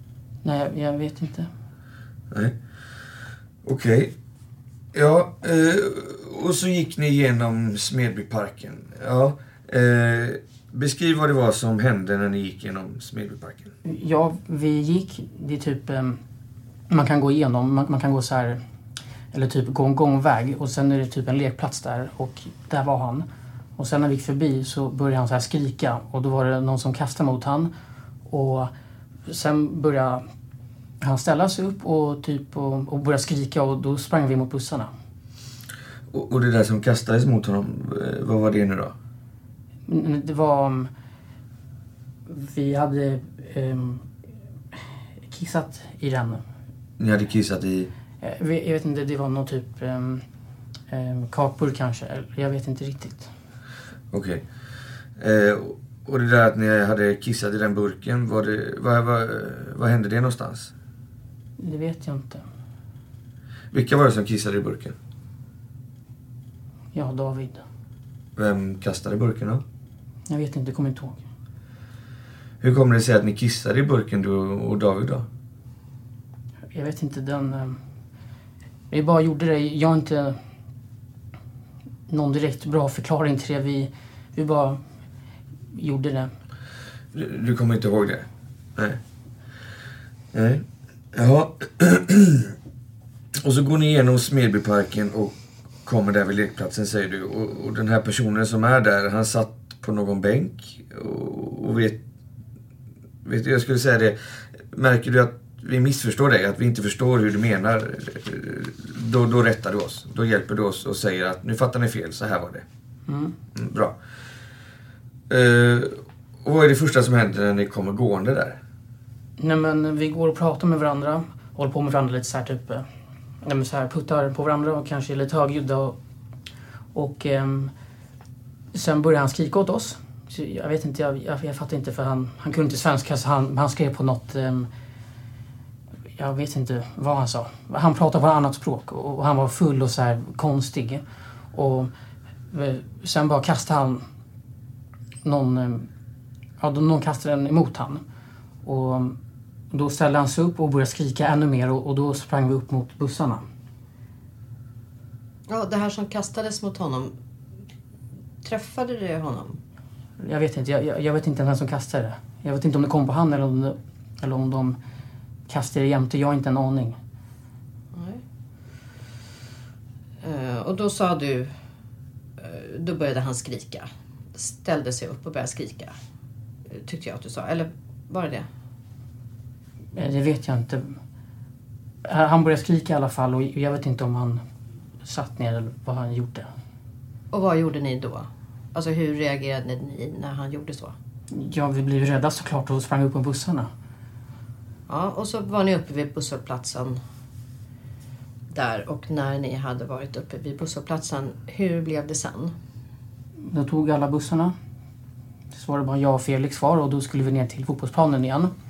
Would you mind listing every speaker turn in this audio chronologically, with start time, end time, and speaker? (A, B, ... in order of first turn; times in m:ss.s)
0:00.4-0:01.5 A
0:02.3-0:02.6 B
0:03.6-0:04.1 B
0:04.9-0:13.7 B
0:13.8-0:16.2 A
0:16.9-0:18.6 A
0:19.3-0:23.3 A
0:23.8-0:27.7 A
0:28.3-0:28.7 A
0:29.3-0:30.2 A
0:31.0-0:34.9 A
0:36.1-0:39.0 B
0:39.9-0:40.9 A
0:42.3-0:44.1 A
0:45.3-0:46.4 A
0:47.0-0:47.9 B
0:48.2-0:50.2 A
0:50.9-0:53.3 A
0:54.1-0:54.4 B
0:55.2-1:00.7 B
1:01.6-1:02.4 A
1:03.7-1:05.0 B
1:06.9-1:07.6 A
1:08.4-1:09.6 B
1:10.3-1:11.2 A
1:12.6-1:15.3 B
1:16.7-1:17.8 A
1:18.9-1:20.4 A
1:22.1-1:24.8 A
1:25.8-1:26.3 A
1:27.1-1:29.0 B
1:30.3-1:32.5 B
1:33.4-1:42.0 B
1:43.2-1:52.6 B
1:53.1-1:53.4 A
1:53.6-1:54.0 B
1:55.3-1:58.6 B
1:59.4-2:02.9 A
2:03.4-2:06.0 A
2:06.9-2:07.7 A
2:08.7-2:14.7 A
2:16.2-2:21.9 A
2:22.5-2:24.0 A
2:25.2-2:25.9 A
2:26.6-2:28.0 A
2:28.6-2:29.2 A
2:29.7-2:33.4 A
2:35.5-2:37.1 C
2:38.4-2:39.6 C
2:40.2-2:44.8 A
2:45.5-2:47.0 A
2:47.9-2:48.2 C
2:50.2-2:51.5 C
2:52.4-2:55.9 C
2:56.7-2:58.5 C
3:00.0-3:01.0 A
3:02.1-3:04.4 A
3:05.0-3:06.5 A
3:07.3-3:11.0 C
3:11.3-3:13.7 A
3:14.9-3:17.0 C
3:18.5-3:22.5 C
3:23.4-3:24.6 A
3:25.5-3:28.5 A